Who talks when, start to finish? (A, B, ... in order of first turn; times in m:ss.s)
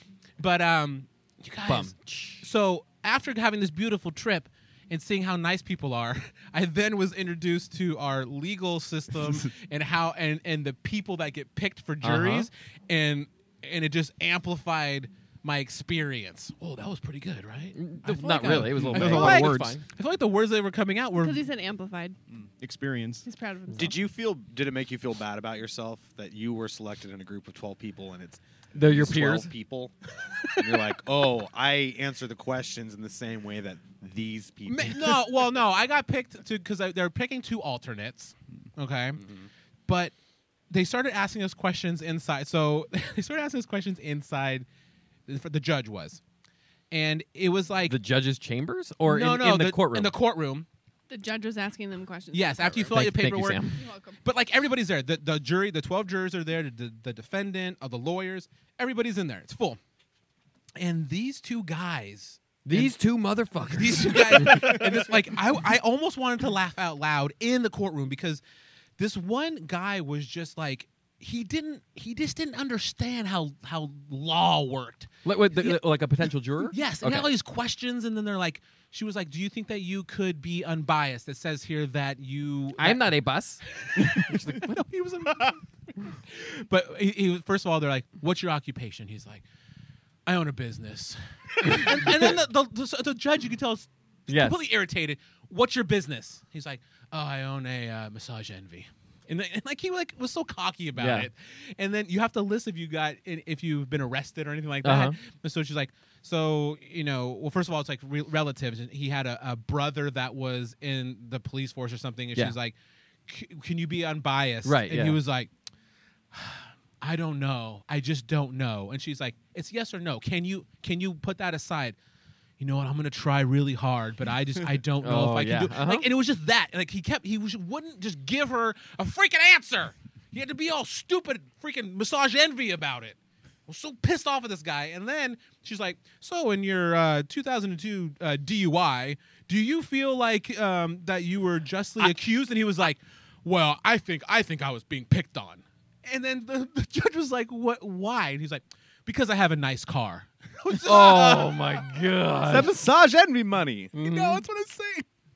0:00.4-0:21.4 A
0:01.6-0:02.5 B
0:12.0-0:12.5 B
0:17.7-0:19.8 B
0:18.6-0:19.6 C
0:21.2-0:22.2 D
0:22.3-0:23.2 C
0:23.2-0:24.0 D
0:23.8-0:30.0 E
0:28.7-0:29.5 B
0:30.6-0:35.4 E
0:34.7-0:39.2 A
0:39.2-0:39.5 E
0:39.9-0:40.1 A
0:40.7-0:44.7 A
0:45.3-0:46.2 A
0:46.9-0:48.0 A
0:47.9-0:50.1 B
0:49.0-0:50.7 A
0:51.1-0:52.9 D
0:52.3-0:53.7 A
0:52.9-0:53.8 B
0:53.8-0:54.2 D
0:54.2-0:59.8 A
1:00.8-1:03.0 A
1:02.6-1:04.9 B
1:03.7-1:08.4 A
1:09.0-1:15.8 A
1:15.2-1:17.3 B
1:16.7-1:23.1 A
1:22.8-1:24.8 B
1:23.7-1:29.4 A
1:30.3-1:52.8 A
1:34.3-1:34.6 B
1:41.0-1:41.3 B
1:44.8-1:45.2 B
1:53.3-1:55.5 A
1:54.6-1:55.2 B
1:56.3-2:02.0 A
2:02.6-2:31.9 A
2:05.0-2:06.1 B
2:30.7-2:32.8 B
2:32.5-2:33.9 E
2:33.9-2:34.4 B
2:33.9-2:35.1 A